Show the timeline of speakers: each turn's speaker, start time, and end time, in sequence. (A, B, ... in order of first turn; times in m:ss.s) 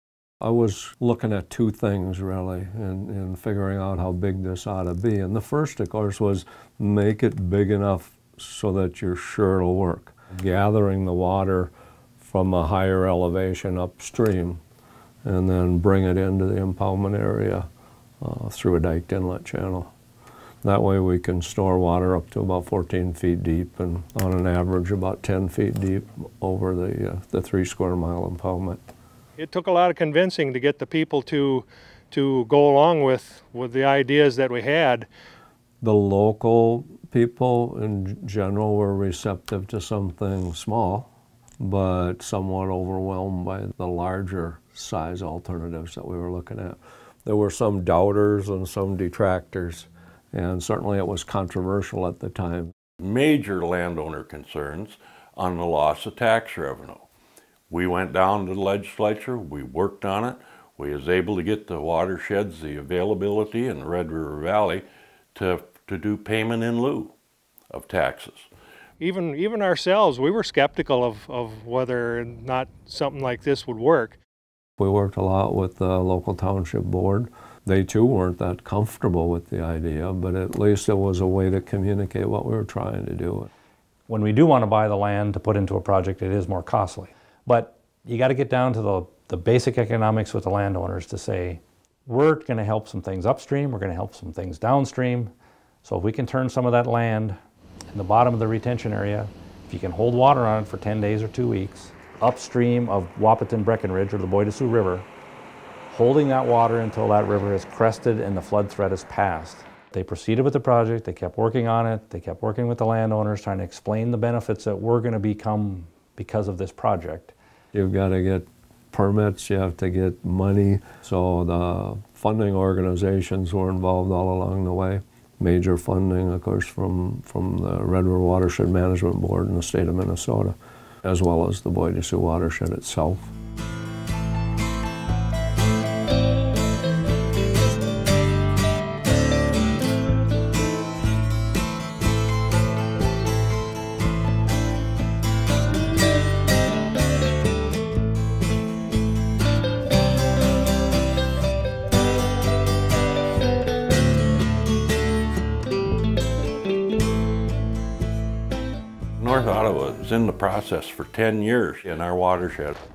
0:00.4-0:14.6 A
0:15.2-0:17.7 A
0:18.2-0:19.9 A
0:20.6-0:28.8 A
0:29.4-0:35.1 B
0:35.8-0:41.1 A
0:41.6-0:52.7 A
0:53.0-0:57.1 C
0:57.7-1:07.1 C
1:07.7-1:08.5 C
1:09.0-1:14.2 B
1:14.8-1:23.5 A
1:24.1-1:35.3 D
1:35.8-1:37.4 D
1:37.9-1:45.0 D
1:45.9-1:57.3 D
1:57.7-2:13.3 A
2:39.2-2:42.8 C